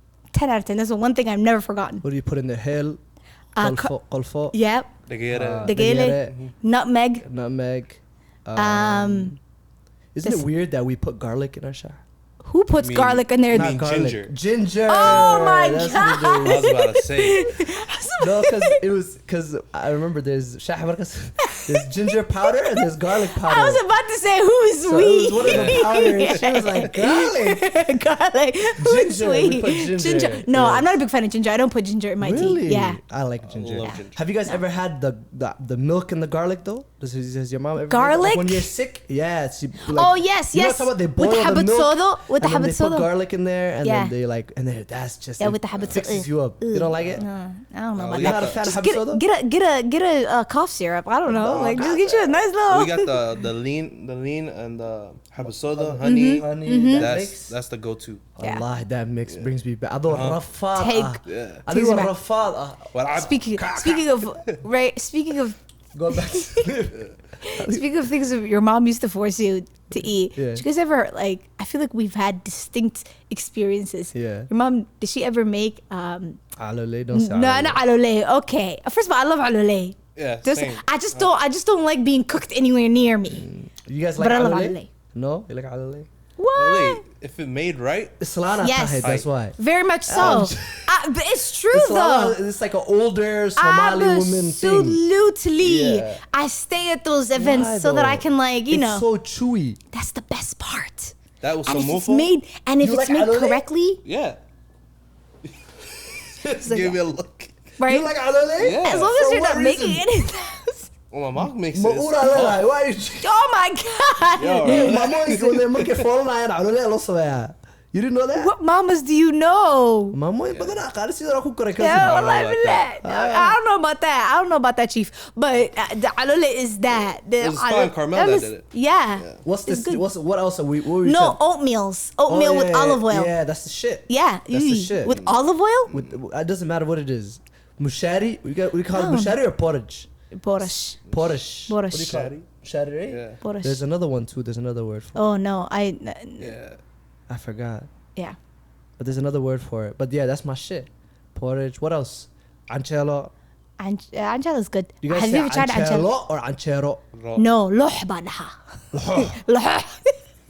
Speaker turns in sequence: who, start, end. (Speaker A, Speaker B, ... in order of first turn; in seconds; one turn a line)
Speaker A: 0.3-2.0
Speaker B: 2.0-3.0
Speaker A: 3.6-3.9
Speaker B: 3.6-4.5
Speaker A: 4.5-4.9
Speaker C: 5.1-6.5
Speaker B: 5.3-6.3
Speaker A: 5.6-7.2
Speaker B: 7.2-9.4
Speaker A: 8.6-9.3
Speaker B: 10.1-12.0
Speaker A: 12.4-13.8
Speaker C: 12.8-14.3
Speaker B: 12.8-16.6
Speaker A: 14.9-18.8
Speaker C: 15.0-15.4
Speaker C: 16.4-17.6
Speaker B: 18.2-23.8
Speaker A: 21.4-22.1
Speaker A: 23.2-33.0
Speaker B: 24.9-27.7
Speaker C: 25.4-26.5
Speaker B: 28.8-30.9
Speaker B: 32.2-47.2
Speaker C: 33.4-34.2
Speaker A: 33.8-34.6
Speaker A: 37.9-38.7
Speaker A: 39.9-43.1
Speaker A: 43.8-44.1
Speaker A: 45.4-53.3
Speaker C: 47.0-47.2
Speaker C: 48.0-48.7
Speaker B: 48.1-49.2
Speaker B: 51.2-51.9
Speaker C: 51.4-58.3
Speaker B: 55.4-57.5
Speaker A: 56.0-57.1
Speaker B: 58.4-62.9
Speaker C: 60.1-60.4
Speaker A: 60.7-62.1
Speaker C: 61.2-61.6
Speaker C: 62.9-64.4
Speaker A: 63.1-65.6
Speaker B: 65.9-67.9
Speaker A: 66.1-66.7
Speaker A: 67.4-76.4
Speaker B: 70.3-70.6
Speaker B: 74.1-74.5
Speaker B: 76.6-77.8
Speaker A: 77.1-83.5
Speaker C: 80.2-81.3
Speaker B: 83.3-86.1
Speaker A: 84.2-84.9
Speaker A: 86.4-87.0
Speaker C: 86.5-88.2
Speaker B: 88.2-90.8
Speaker A: 88.6-92.4
Speaker C: 89.0-89.3
Speaker B: 91.7-95.0
Speaker A: 93.5-99.0
Speaker B: 95.6-96.2
Speaker B: 97.3-99.8
Speaker A: 99.9-104.0
Speaker C: 101.4-102.3
Speaker B: 102.8-103.6
Speaker C: 104.0-104.4
Speaker C: 105.6-107.5
Speaker B: 106.4-106.7
Speaker A: 106.5-107.0
Speaker A: 107.8-108.1
Speaker B: 107.8-110.0
Speaker C: 108.6-109.1
Speaker A: 108.8-110.9
Speaker C: 111.1-112.6
Speaker B: 111.7-113.4
Speaker A: 113.2-115.0
Speaker C: 114.4-116.0
Speaker B: 114.6-118.5
Speaker A: 118.3-120.2
Speaker B: 120.1-122.4
Speaker C: 120.5-120.8
Speaker A: 121.8-130.0
Speaker C: 121.9-122.9
Speaker B: 123.0-123.6
Speaker C: 127.4-129.4
Speaker B: 129.4-131.4
Speaker A: 131.0-133.3
Speaker B: 132.3-135.2
Speaker A: 134.1-135.9
Speaker C: 135.1-135.4
Speaker B: 135.9-140.1
Speaker A: 138.9-139.4
Speaker A: 140.3-141.0
Speaker B: 140.6-145.2
Speaker A: 141.7-142.2
Speaker C: 141.9-142.5
Speaker C: 143.1-143.4
Speaker A: 143.4-143.8
Speaker A: 145.1-146.6
Speaker C: 146.4-146.8
Speaker B: 147.3-147.9
Speaker B: 149.0-153.3
Speaker A: 153.8-156.1
Speaker B: 155.0-157.0
Speaker C: 157.1-157.5
Speaker A: 157.3-160.2
Speaker B: 158.9-159.4